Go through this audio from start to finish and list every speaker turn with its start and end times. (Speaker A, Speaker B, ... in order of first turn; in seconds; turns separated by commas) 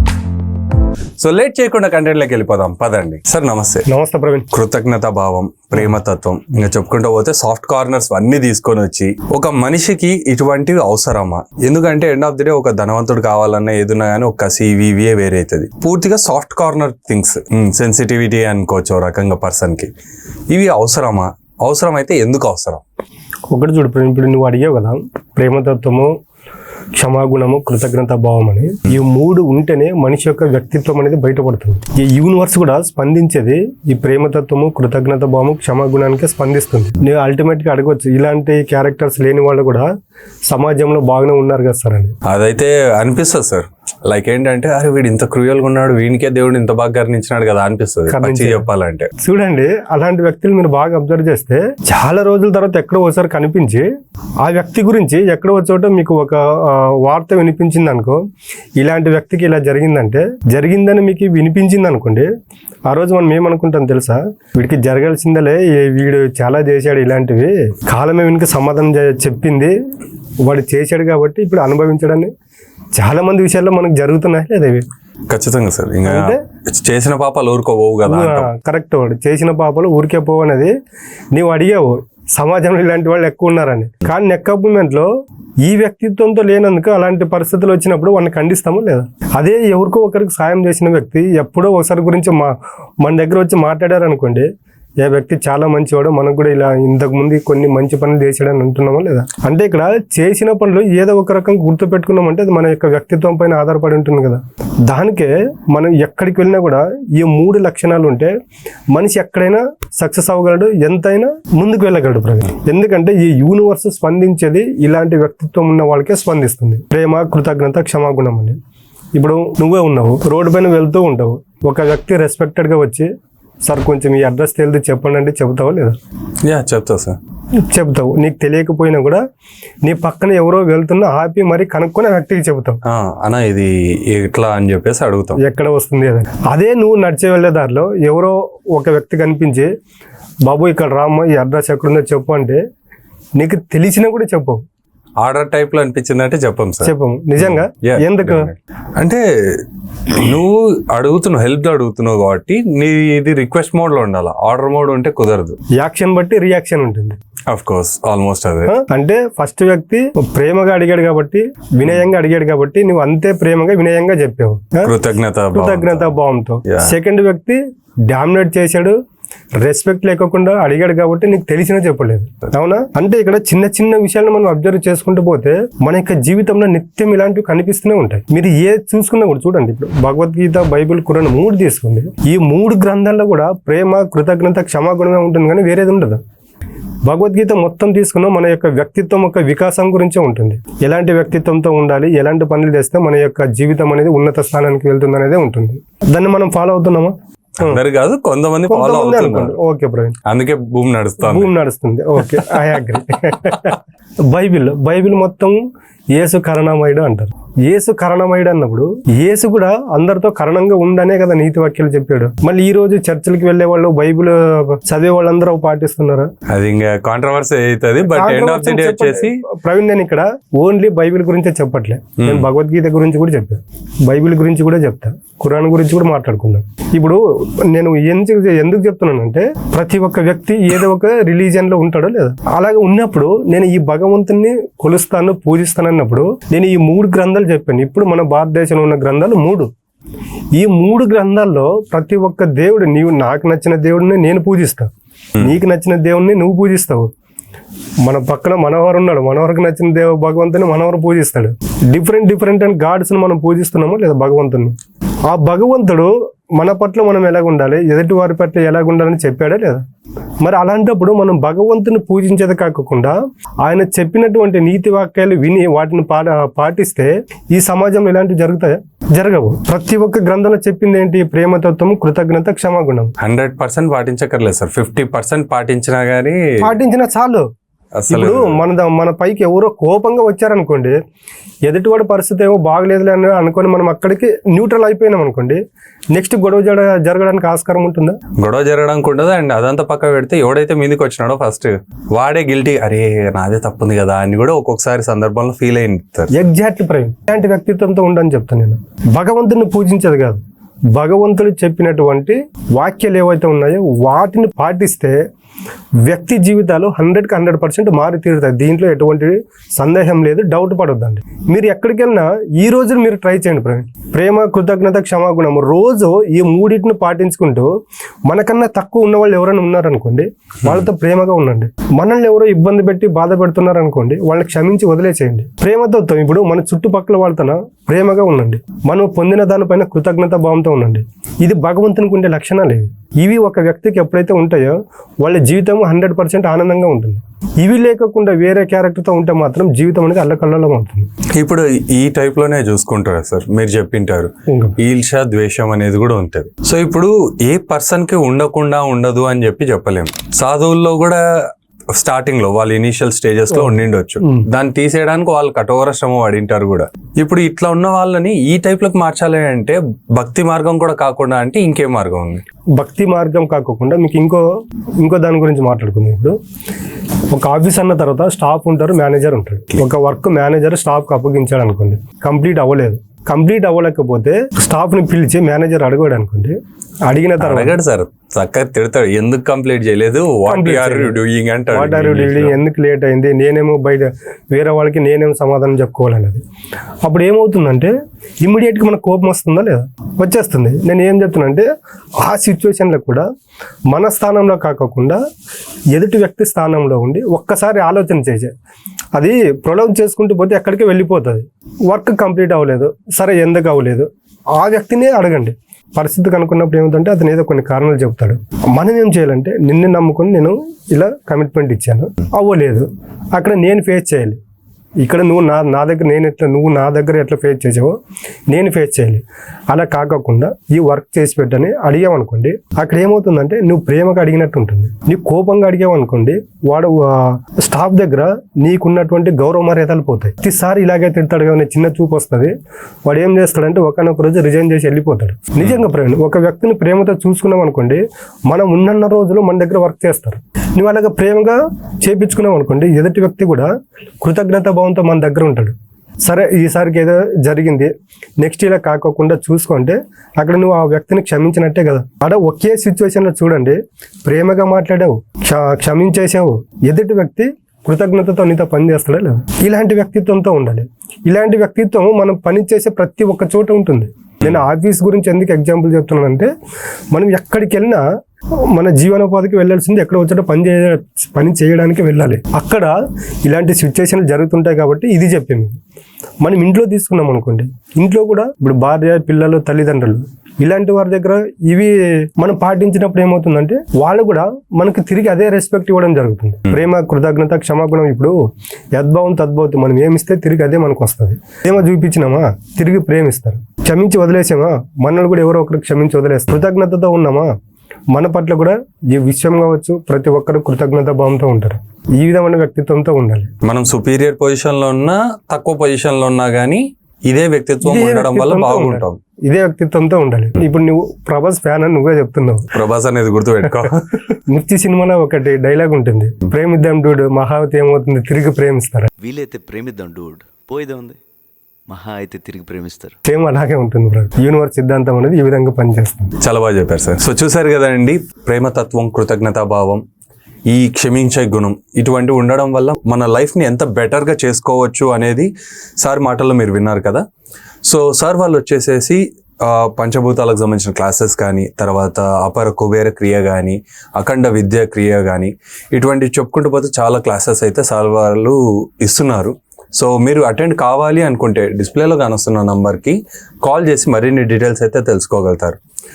Speaker A: 1.2-3.9, Speaker B: 3.9-4.5, Speaker A: 4.5-19.9, Speaker A: 20.5-22.8, Speaker B: 23.5-26.1, Speaker B: 27.0-39.9, Speaker B: 40.5-42.1, Speaker A: 42.2-49.1, Speaker B: 48.1-48.7, Speaker B: 49.2-53.9, Speaker B: 54.4-58.2, Speaker B: 58.8-62.3, Speaker B: 62.9-69.7, Speaker B: 70.4-72.3, Speaker B: 72.9-74.8, Speaker A: 75.3-78.5, Speaker B: 76.0-76.4, Speaker B: 78.0-80.7, Speaker B: 81.3-85.1, Speaker B: 85.6-94.5, Speaker B: 95.0-108.3, Speaker B: 108.9-118.6, Speaker B: 119.1-123.1, Speaker B: 123.7-126.0, Speaker A: 126.4-127.2, Speaker B: 127.7-129.2, Speaker B: 129.8-132.8, Speaker A: 132.8-135.4, Speaker B: 135.4-139.7, Speaker B: 140.4-142.6, Speaker B: 143.4-144.6, Speaker A: 145.2-155.6, Speaker B: 146.8-148.5, Speaker B: 155.8-157.2, Speaker A: 157.5-158.7, Speaker B: 158.7-164.9, Speaker A: 164.8-166.9, Speaker B: 165.5-168.9, Speaker B: 169.6-186.2, Speaker B: 187.1-197.8, Speaker A: 197.6-199.6, Speaker B: 198.7-200.2, Speaker A: 200.2-201.5, Speaker B: 201.2-203.8, Speaker B: 204.3-205.6, Speaker B: 206.1-216.3, Speaker A: 216.5-219.4, Speaker B: 218.0-239.7, Speaker A: 222.2-222.5, Speaker B: 240.6-247.1, Speaker B: 248.0-254.7, Speaker B: 255.3-259.8, Speaker B: 260.4-273.1, Speaker A: 273.2-276.4, Speaker B: 276.6-277.5, Speaker A: 277.9-278.7, Speaker B: 278.1-281.0, Speaker B: 281.6-285.6, Speaker B: 286.1-288.2, Speaker A: 288.4-296.3, Speaker B: 296.3-300.4, Speaker B: 300.9-305.2, Speaker B: 306.1-317.7, Speaker B: 318.3-341.1, Speaker A: 341.3-351.2, Speaker B: 344.5-344.8, Speaker A: 351.9-362.4, Speaker B: 353.6-354.5, Speaker B: 362.8-364.4, Speaker B: 365.0-366.4, Speaker B: 367.3-376.6, Speaker B: 377.1-377.8, Speaker A: 377.4-382.6, Speaker B: 380.5-381.2, Speaker B: 381.7-386.4, Speaker B: 387.0-391.7, Speaker B: 392.2-393.2, Speaker B: 393.9-395.2, Speaker B: 395.9-398.5, Speaker B: 399.1-414.4, Speaker B: 415.0-418.0, Speaker B: 418.5-432.5, Speaker B: 433.1-443.7, Speaker B: 444.2-466.5, Speaker B: 467.1-468.0, Speaker B: 468.7-475.8, Speaker B: 476.4-488.3, Speaker B: 488.9-497.5, Speaker B: 498.1-503.5, Speaker A: 503.6-509.2, Speaker B: 507.8-512.7, Speaker A: 512.7-514.3, Speaker B: 514.5-519.1, Speaker C: 519.2-521.2, Speaker C: 521.9-523.2, Speaker B: 523.3-526.3, Speaker A: 526.4-530.0, Speaker A: 530.7-535.5, Speaker A: 536.0-537.2, Speaker A: 537.8-555.8